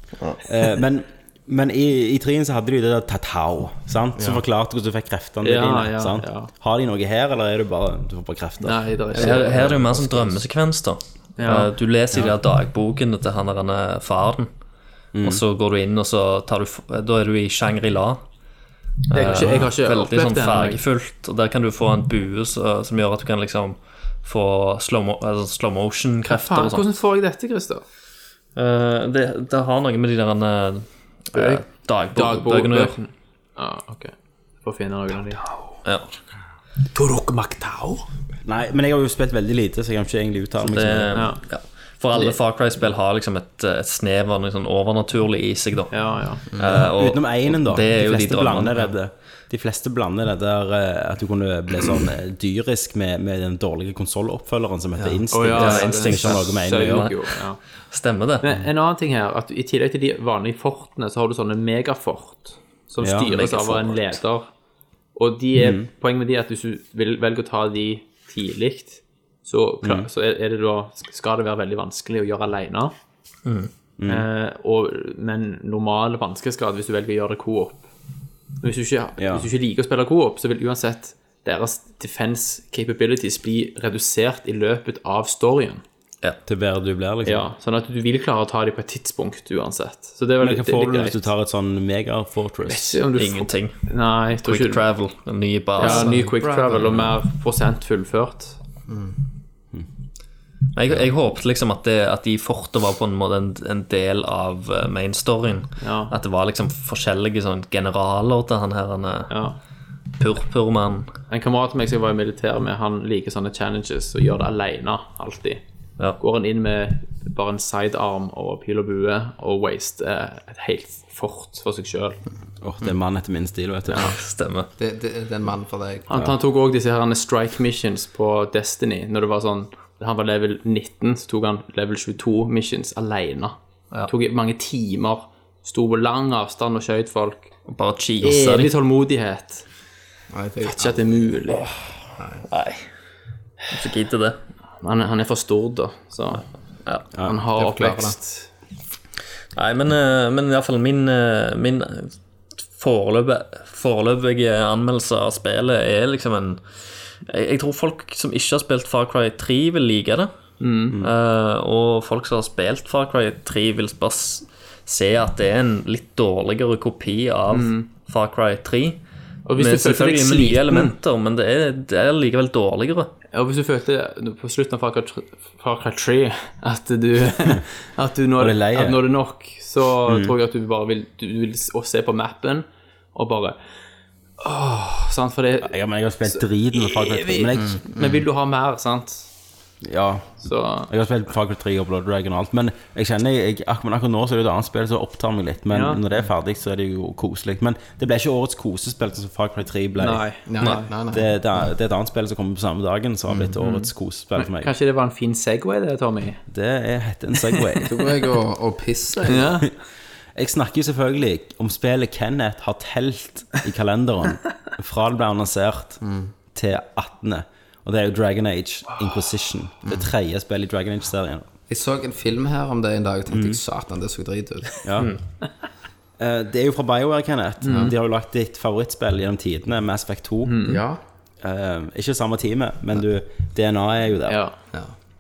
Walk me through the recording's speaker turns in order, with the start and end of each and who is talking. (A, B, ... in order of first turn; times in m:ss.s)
0:00.4-0:08.8 A
0:05.4-0:06.5 B
0:08.6-0:09.6 B
0:09.2-0:10.4 C
0:09.2-0:14.5 D
0:11.4-0:11.7 B
0:15.1-0:15.4 A
0:15.2-0:18.2 D
0:19.1-0:20.8 B
0:19.1-0:27.0 D
0:26.2-0:27.8 B
0:28.6-0:33.0 D
0:31.3-0:35.5 B
0:35.8-0:36.1 D
0:36.9-0:38.1 B
0:38.4-0:41.2 A
0:40.6-0:48.9 D
0:41.1-0:41.4 B
0:42.1-0:42.4 B
0:45.9-0:46.5 B
0:46.5-0:46.8 C
0:46.6-0:57.1 A
0:55.0-0:55.2 C
0:55.3-0:57.6 B
0:55.5-0:57.4 D
0:57.9-0:58.5 D
0:58.4-1:04.5 B
1:03.0-1:03.3 A
1:03.3-1:04.2 D
1:05.2-1:12.9 B
1:05.6-1:05.9 A
1:09.8-1:10.1 A
1:13.5-1:13.7 D
1:14.0-1:14.3 A
1:14.1-1:17.9 B
1:18.6-1:25.8 B
1:19.2-1:19.5 A
1:26.5-1:27.5 A
1:27.2-1:31.3 B
1:30.4-1:33.0 A
1:32.7-1:34.8 B
1:33.2-1:33.8 D
1:34.4-1:36.2 D
1:35.8-1:38.6 B
1:35.8-1:37.1 C
1:38.9-1:39.2 C
1:40.8-1:49.3 D
1:45.8-1:46.1 B
1:49.3-1:49.6 B
1:50.2-1:51.1 D
1:51.3-1:55.6 B
1:56.2-2:02.2 B
2:02.6-2:04.2 A
2:03.9-2:04.7 D
2:04.8-2:06.1 C
2:06.1-2:13.6 B
2:14.1-2:17.5 B
2:17.7-2:18.7 D
2:18.2-2:19.6 B
2:20.3-2:21.3 C
2:20.6-2:21.7 B
2:22.2-2:22.4 C
2:22.5-2:22.9 D
2:23.7-2:24.4 D
2:24.8-2:26.4 B
2:27.2-2:28.5 B
2:27.6-2:28.2 C
2:29.6-2:32.2 D
2:32.8-2:36.6 D
2:37.2-2:40.3 D
2:40.6-2:41.0 B
2:41.0-2:49.0 D
2:47.5-2:47.9 B
2:49.5-2:50.9 B
2:49.6-2:53.1 D
2:53.3-3:03.6 B
2:58.4-2:59.0 A
3:00.1-3:00.4 A
3:04.4-3:09.3 B
3:05.6-3:07.8 A
3:07.6-3:08.2 C
3:09.8-3:20.3 A
3:10.4-3:10.9 B
3:15.7-3:16.0 B
3:20.0-3:20.9 B
3:20.5-3:21.3 C
3:21.1-3:24.7 A
3:23.3-3:23.6 C
3:23.6-3:26.4 B
3:26.5-3:28.0 A
3:27.5-3:27.8 B
3:27.8-3:29.6 C
3:29.3-3:29.7 B
3:30.4-3:36.0 A
3:36.0-3:36.3 C
3:36.5-3:41.5 A
3:41.7-3:44.8 C
3:43.3-3:43.6 A
3:44.8-3:45.2 A
3:46.2-3:50.7 A
3:47.6-3:48.0 B
3:50.4-3:50.8 B
3:50.6-3:51.0 C
3:51.4-3:54.4 A
3:54.3-3:54.6 B